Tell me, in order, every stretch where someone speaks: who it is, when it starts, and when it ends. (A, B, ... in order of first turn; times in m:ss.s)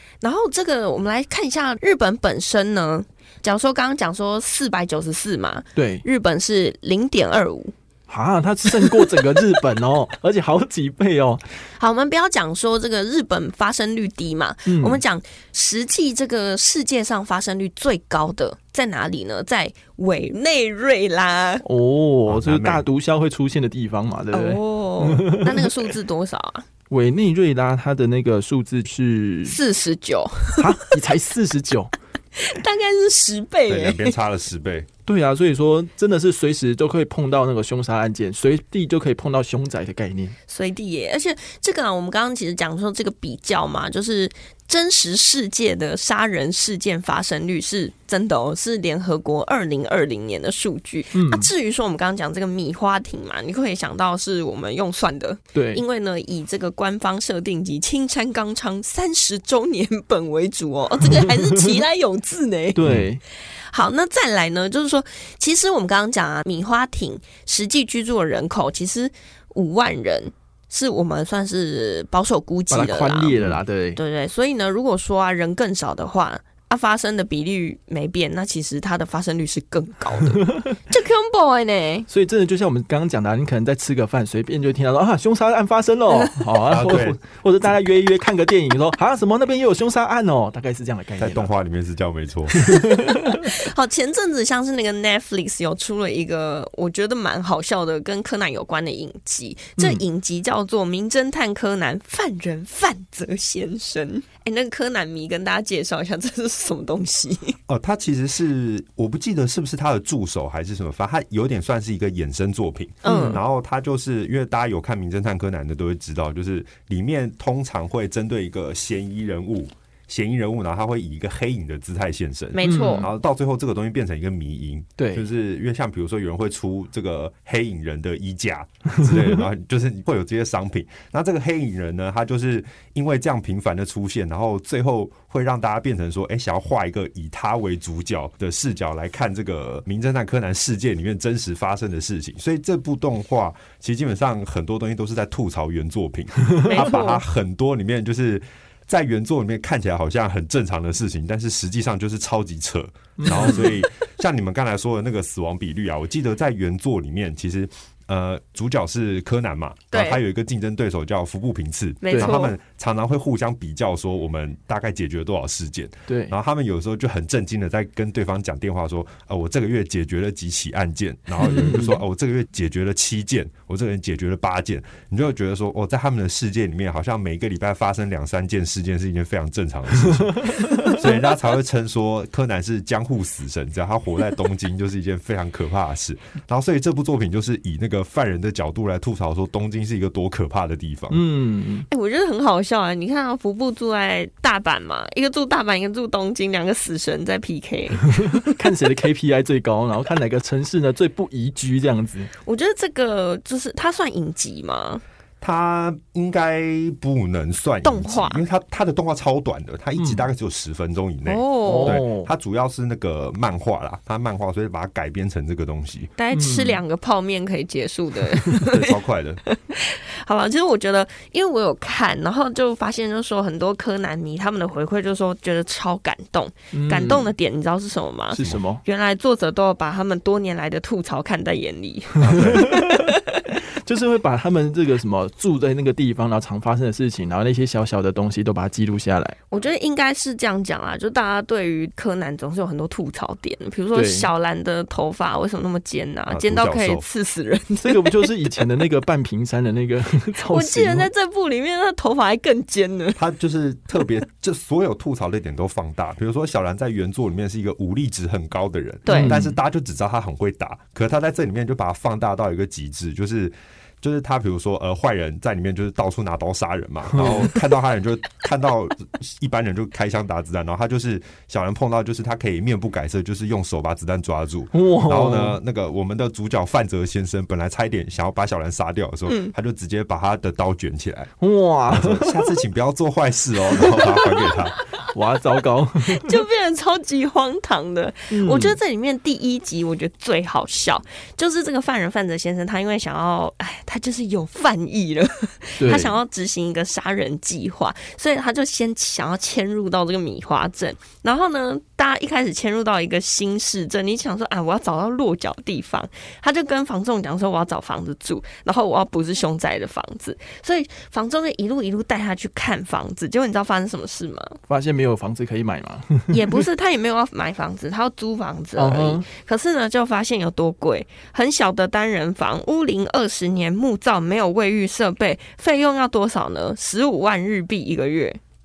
0:00.2-0:07.7 A
0:05.8-0:06.0 B
0:08.1-0:11.4 B
0:11.8-0:21.6 A
0:14.7-0:15.0 B
0:21.6-0:25.7 B
0:22.3-0:22.8 C
0:24.3-0:26.6 A
0:26.9-0:29.6 B
0:29.4-0:30.9 A
0:30.6-0:31.9 B
0:32.4-0:34.1 A
0:33.7-0:34.9 C
0:35.0-0:40.3 B
0:40.5-1:02.8 A
0:51.1-0:51.5 B
0:55.5-0:55.8 B
1:02.7-1:03.2 B
1:03.7-1:13.4 A
1:12.7-1:14.0 B
1:13.9-1:22.1 A
1:22.1-1:31.5 B
1:26.1-1:26.4 A
1:26.6-1:27.2 C
1:31.2-1:32.8 C
1:32.6-1:33.4 B
1:32.6-1:47.6 A
1:39.8-1:40.0 B
1:47.7-3:11.2 C
1:53.0-1:53.4 A
1:53.0-1:53.4 B
2:02.5-2:03.1 A
2:02.6-2:03.1 B
2:05.0-2:05.2 B
2:09.0-2:09.4 B
2:26.6-2:27.2 A
2:33.2-2:33.7 B
2:39.9-2:40.2 A
2:42.0-2:42.5 A
2:46.1-2:46.3 B
2:51.4-2:52.0 B
3:00.5-3:00.9 B
3:11.1-3:11.8 B
3:11.9-3:18.6 A
3:18.5-3:22.3 B
3:22.4-3:25.0 A
3:25.4-3:36.1 C
3:27.8-3:28.4 A
3:30.0-3:30.3 B
3:31.2-3:32.0 A
3:31.6-3:32.3 B
3:36.2-3:39.0 A
3:36.3-3:36.8 B
3:38.5-3:39.4 C
3:39.5-3:53.4 A
3:46.7-3:47.3 B
3:48.3-3:48.8 B
3:52.2-3:52.8 C
3:52.5-3:59.4 B
3:59.5-4:08.3 A
4:03.9-4:04.3 B
4:06.3-4:07.0 C
4:07.8-4:11.1 B
4:10.4-4:13.2 A
4:13.2-4:41.3 C
4:19.0-4:19.4 A
4:19.1-4:19.6 B
4:27.1-4:27.5 B
4:34.7-4:35.6 B
4:39.3-4:39.5 A
4:41.4-4:42.5 B
4:41.9-4:44.8 C
4:44.2-4:44.8 A
4:45.1-4:46.3 B
4:46.0-5:14.6 A
4:48.3-4:48.8 B
4:55.8-4:56.1 B
5:14.7-5:16.3 B
5:16.3-5:28.4 A
5:18.8-5:19.3 B